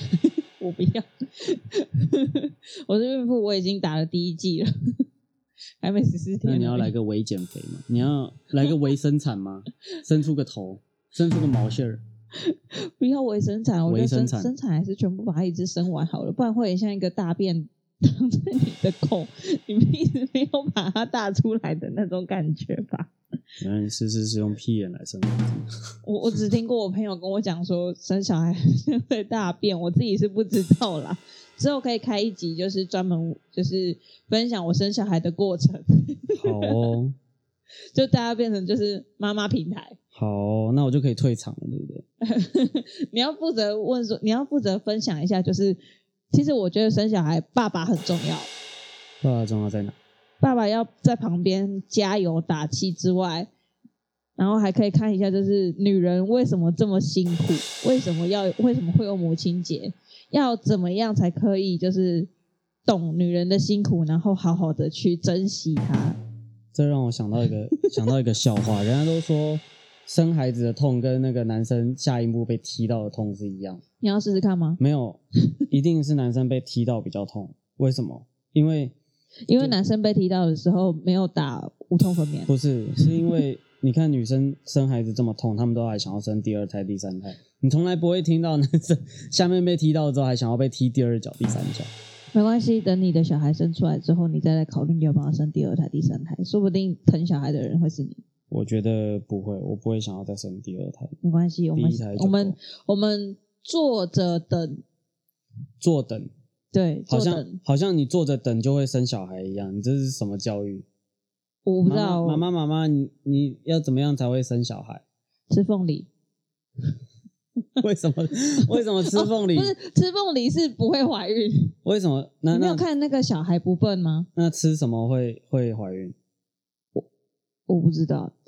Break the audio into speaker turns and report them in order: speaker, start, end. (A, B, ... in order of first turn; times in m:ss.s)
0:00.2-0:05.0 A
0:05.8-0:06.9 A
0:06.4-0:12.0 B
0:12.4-0:23.1 A
0:13.9-0:14.5 B
0:23.6-0:25.7 B
0:26.0-0:36.7 A
0:36.4-0:37.1 B
0:37.9-0:40.0 A
0:40.1-0:42.0 B
0:42.2-0:45.8 A
0:46.3-0:48.5 A
0:49.2-0:50.0 B
0:50.4-0:53.5 A
0:54.4-1:02.3 A
1:02.8-1:06.2 A
1:06.7-1:13.8 B
1:14.0-1:14.8 A
1:14.8-1:18.9 B
1:19.5-1:23.0 A
1:22.5-1:31.9 B
1:32.3-1:38.2 A
1:38.5-1:41.1 B
1:41.2-1:44.8 A
1:41.7-1:42.6 B
1:45.8-1:46.3 B
1:46.7-1:47.6 A
1:47.1-1:50.8 B
1:51.6-1:52.4 A
1:51.8-1:55.0 B
1:55.5-1:56.1 A
1:57.8-1:59.7 B
1:59.1-2:01.7 A
2:01.8-2:02.8 B
2:02.5-2:04.3 A
2:04.3-2:06.1 B
2:07.7-2:08.4 A